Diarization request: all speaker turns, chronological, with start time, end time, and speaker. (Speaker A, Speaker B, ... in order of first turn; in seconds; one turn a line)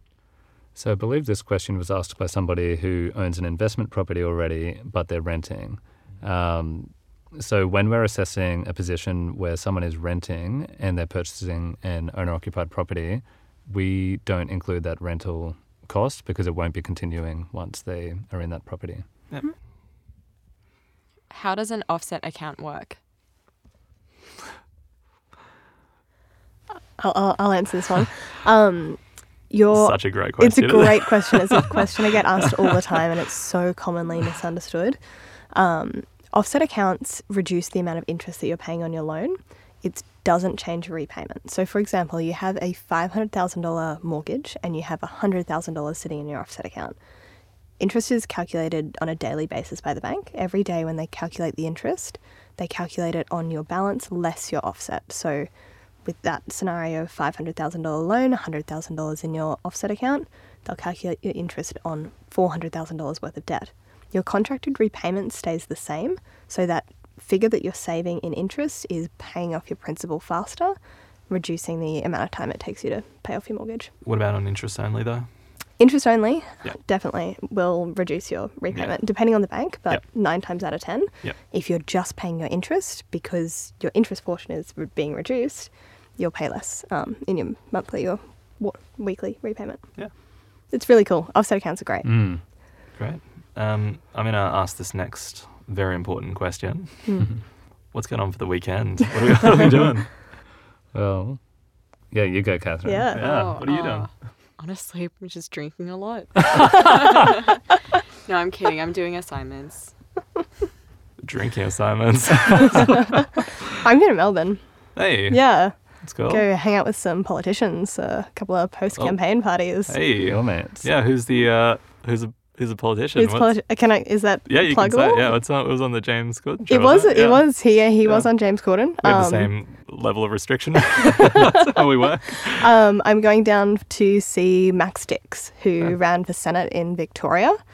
Speaker A: 0.7-19.0
Speaker B: 21.3-23.0
Speaker C: 27.0-35.0
Speaker D: 29.7-31.9
Speaker C: 35.5-47.0
Speaker C: 47.8-55.5
Speaker C: 56.0-70.8
Speaker C: 71.3-73.9
Speaker D: 74.0-75.3
Speaker C: 75.8-90.2
Speaker C: 90.7-92.1
Speaker A: 92.0-92.4
Speaker D: 92.9-97.3
Speaker C: 97.0-97.3
Speaker D: 97.9-100.1
Speaker A: 100.9-101.4
Speaker A: 102.1-103.2
Speaker C: 102.8-103.3
Speaker D: 103.1-104.1
Speaker B: 103.2-107.6
Speaker B: 108.2-109.9
Speaker D: 111.2-113.2
Speaker C: 113.8-114.6
Speaker D: 114.9-116.4
Speaker C: 115.2-120.0
Speaker D: 119.0-119.3
Speaker D: 119.8-123.5
Speaker A: 120.2-120.9
Speaker C: 123.2-125.3
Speaker D: 124.5-128.3
Speaker C: 126.7-129.5
Speaker D: 129.0-132.6
Speaker C: 131.2-131.7
Speaker C: 132.6-137.6